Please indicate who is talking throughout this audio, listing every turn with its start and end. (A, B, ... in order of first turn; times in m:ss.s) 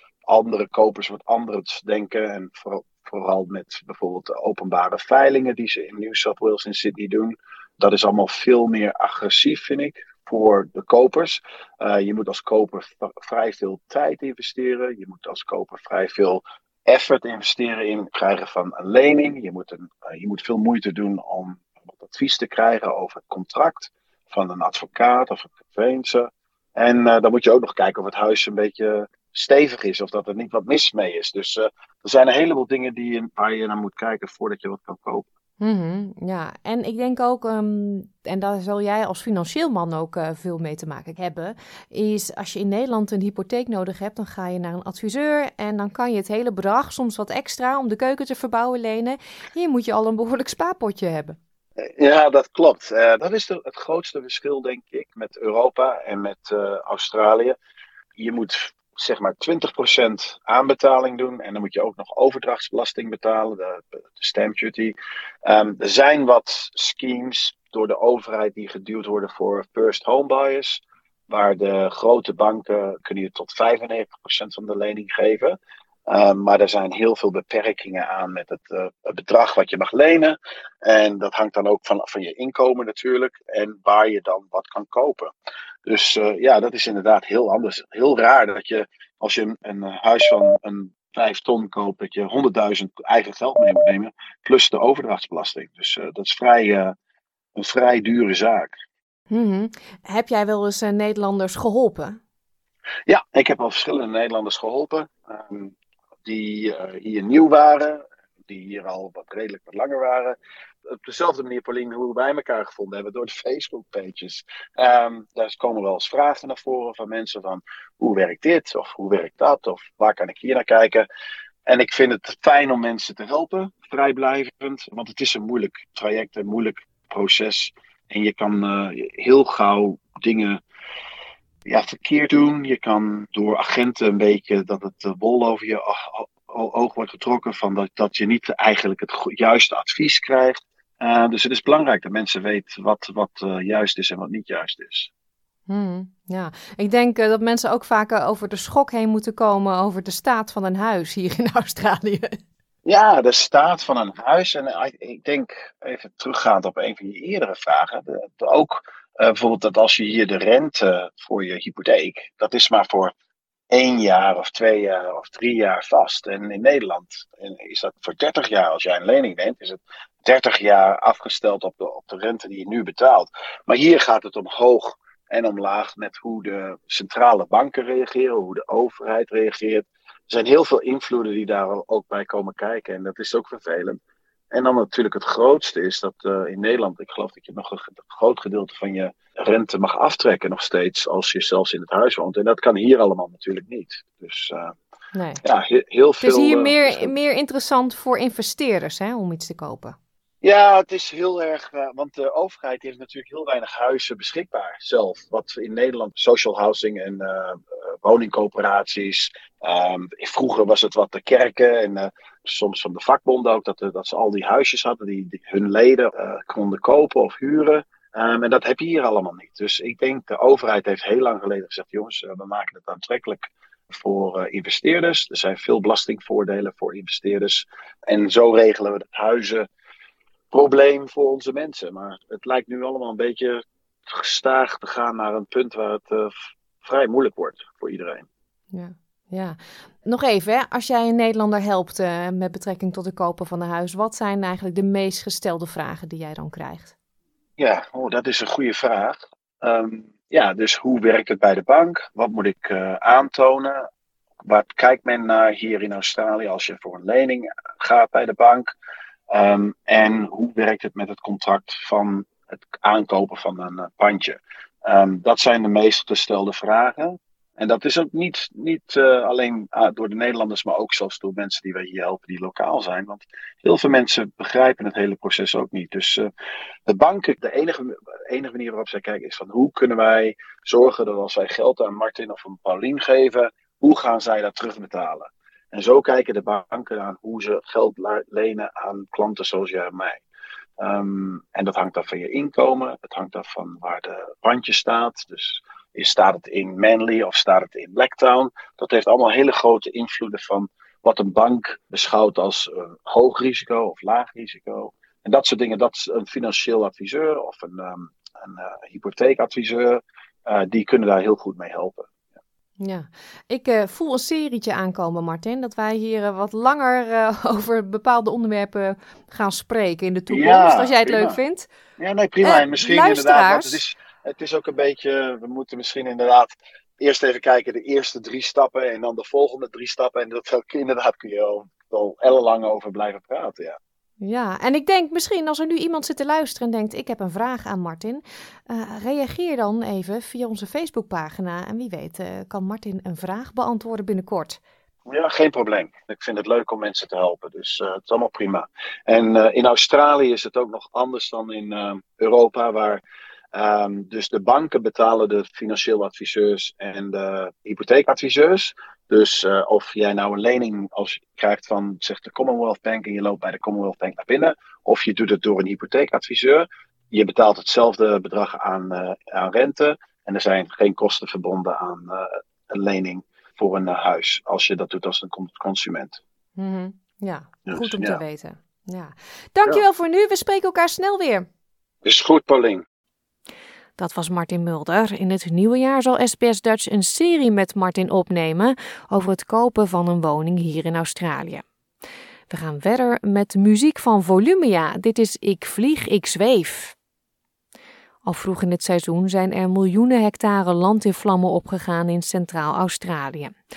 0:00.3-0:35.2 A
0:35.6-0:51.4 B
0:51.8-0:57.6 A
0:58.2-1:15.6 A
1:16.1-1:25.3 A
1:25.8-1:36.9 A
1:37.6-1:38.7 A
1:39.3-1:42.2 B
1:43.1-1:50.4 A
1:50.9-2:01.1 A
2:01.7-2:10.6 A
2:11.6-2:25.1 A
2:25.7-2:32.4 B
2:32.8-2:43.1 A
2:43.7-3:04.0 A
3:04.5-3:14.8 A
3:15.1-3:15.4 B
3:15.4-3:17.1 A
3:16.2-3:20.0 B
3:20.4-3:49.7 A
3:50.5-3:58.2 A
3:58.7-4:06.9 B
4:07.6-4:13.9 A
4:14.4-4:18.7 A
4:19.3-4:36.3 A
4:36.9-4:50.2 A
4:50.8-5:12.1 A
5:12.8-5:21.7 B
5:20.3-5:21.4 A
5:22.0-5:33.8 A
5:22.4-5:23.8 B
5:34.2-5:44.6 B
5:45.0-5:53.0 A
5:53.5-6:16.2 A
6:16.6-6:21.5 B
6:17.6-6:18.2 A
6:22.0-6:22.8 A
6:24.0-6:31.6 B
6:32.5-6:36.9 B
6:38.2-6:43.6 B